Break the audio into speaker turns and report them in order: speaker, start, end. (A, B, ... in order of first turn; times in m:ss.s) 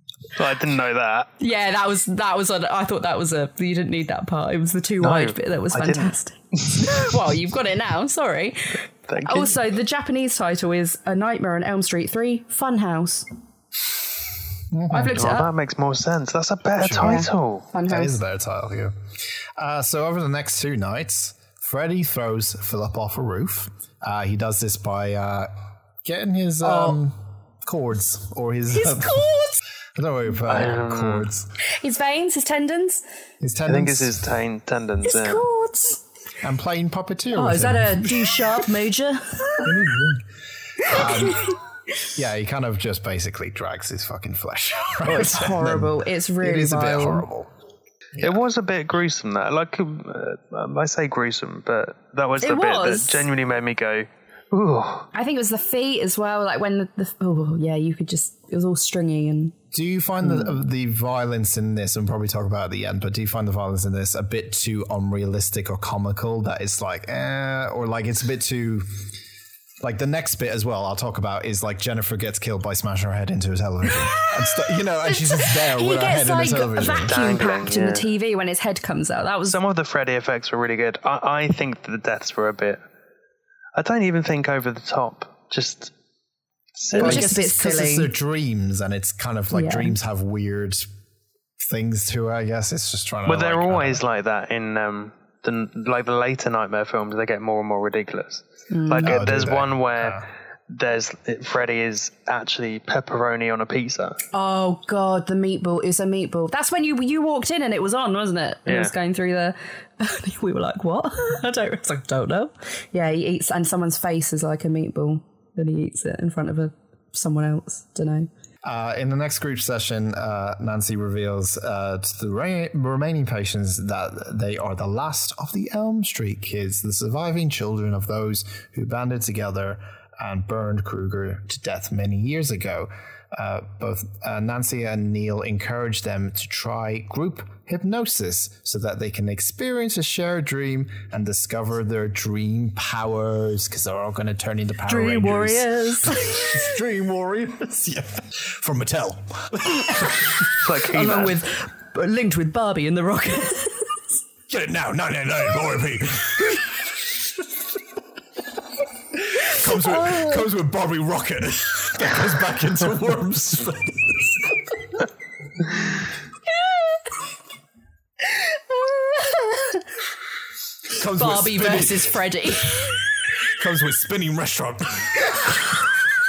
0:00.3-0:01.3 A
0:01.4-0:13.3 B
0:05.0-0:06.1 A
0:06.7-0:07.0 A
0:09.1-0:09.6 A
0:14.7-0:15.4 C
0:14.9-0:15.5 B
0:15.2-0:17.7 A
0:16.8-0:17.2 C
0:17.0-0:18.2 B
0:17.8-0:18.9 C
0:19.6-0:25.5 C
0:26.0-0:29.3 C
0:26.6-0:27.0 B
0:28.7-0:29.6 B
0:29.9-0:31.5 C
0:30.5-0:31.3 A
0:31.8-0:33.0 B
0:33.4-0:34.2 C
0:33.7-0:35.4 A
0:35.0-0:36.0 B
0:36.4-0:38.2 C
0:37.3-0:39.7 B
0:39.6-0:40.2 C
0:40.8-0:41.5 C
0:40.9-0:41.5 B
0:42.1-0:47.5 C
0:45.0-0:47.3 B
0:48.2-0:55.1 A
0:52.4-0:53.3 B
0:55.1-0:59.5 B
0:59.7-1:08.9 C
1:00.2-1:00.5 B
1:09.8-1:17.2 C
1:15.0-1:19.6 B
1:17.1-1:18.0 A
1:19.5-1:22.8 A
1:23.7-1:25.9 A
1:26.8-1:27.3 A
1:26.9-1:28.1 B
1:27.0-1:30.9 C
1:29.5-1:29.9 B
1:31.6-1:34.0 C
1:33.2-1:44.2 A
1:38.7-1:39.2 B
1:39.0-1:40.2 C
1:44.3-1:58.3 B
1:48.7-1:48.9 A
1:58.6-2:30.3 C
2:24.9-2:26.6 B
2:30.4-2:31.4 A
2:30.9-2:34.0 B
2:34.5-2:37.1 C
2:39.1-2:44.4 C
2:39.8-2:40.4 B
2:48.4-2:49.8 B
2:50.9-2:52.2 C
2:51.1-2:53.0 B
2:53.5-2:55.6 C